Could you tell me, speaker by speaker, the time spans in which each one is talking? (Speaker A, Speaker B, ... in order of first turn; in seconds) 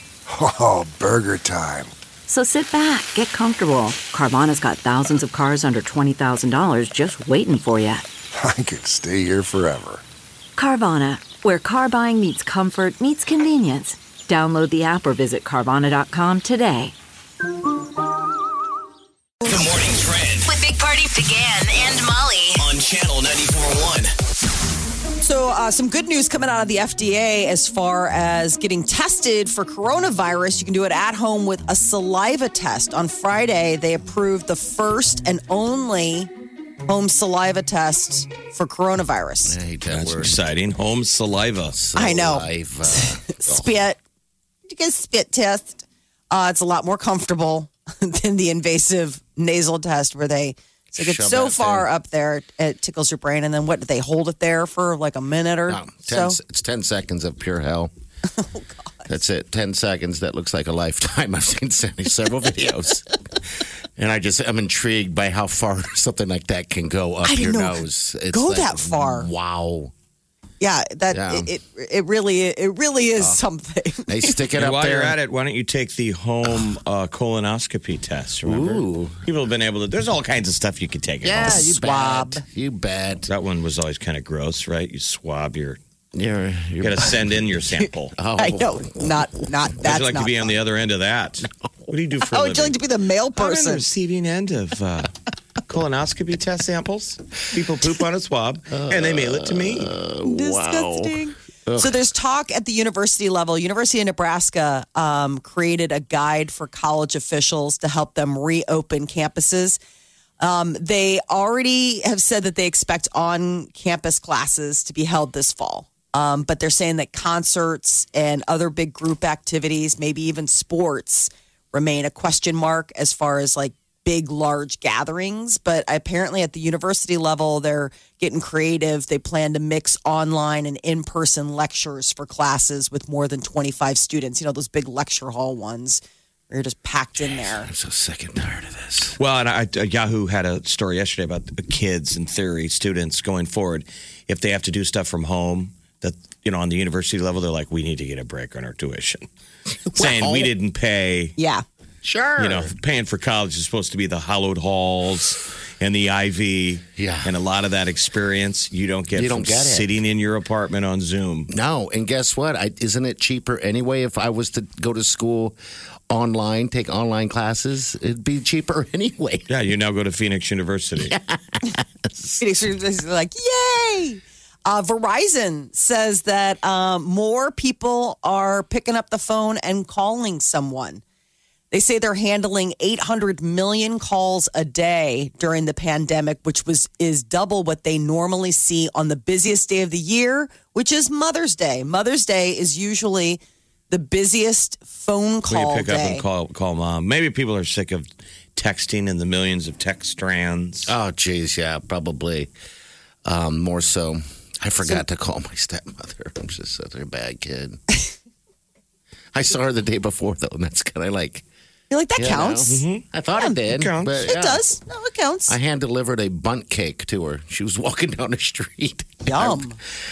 Speaker A: 0.3-1.9, 8.3-10.0
Speaker B: 2.3-8.0, 10.6-16.9
Speaker C: 19.4-20.5, 22.6-24.1
Speaker D: 20.4-22.6
Speaker E: 25.2-36.3, 36.9-39.6, 42.0-44.0, 44.7-56.4, 58.3-59.1, 67.2-69.3, 70.6-74.4, 81.4-82.4, 88.4-90.5, 92.3-93.8, 100.2-109.8, 110.4-137.7, 151.4-151.6, 172.4-181.0, 181.7-196.2, 211.9-212.8, 214.2-215.6, 219.2-219.8
Speaker F: 39.5-40.4, 41.7-43.7, 50.9-51.9, 55.7-57.9, 59.1-63.1, 64.0-69.9, 71.1-71.5, 74.1-75.2, 76.4-76.7, 78.4-79.2, 81.2-83.3, 86.1-87.6, 88.2-89.3, 98.7-101.9, 137.2-139.2, 149.9-150.5, 152.0-152.7, 156.9-157.3, 159.1-159.9, 161.5-165.6, 166.1-169.5, 171.0-172.4, 200.8-202.5, 203.2-207.8, 209.3-211.4, 212.2-214.6, 215.5-219.7
Speaker G: 39.9-41.7, 74.5-81.6, 83.3-85.8, 86.8-88.2, 89.8-92.8, 93.3-95.1, 95.7-99.9, 139.2-149.2, 149.9-151.3, 152.4-161.5, 169.5-171.1, 195.5-200.9, 212.7-213.0, 213.7-214.2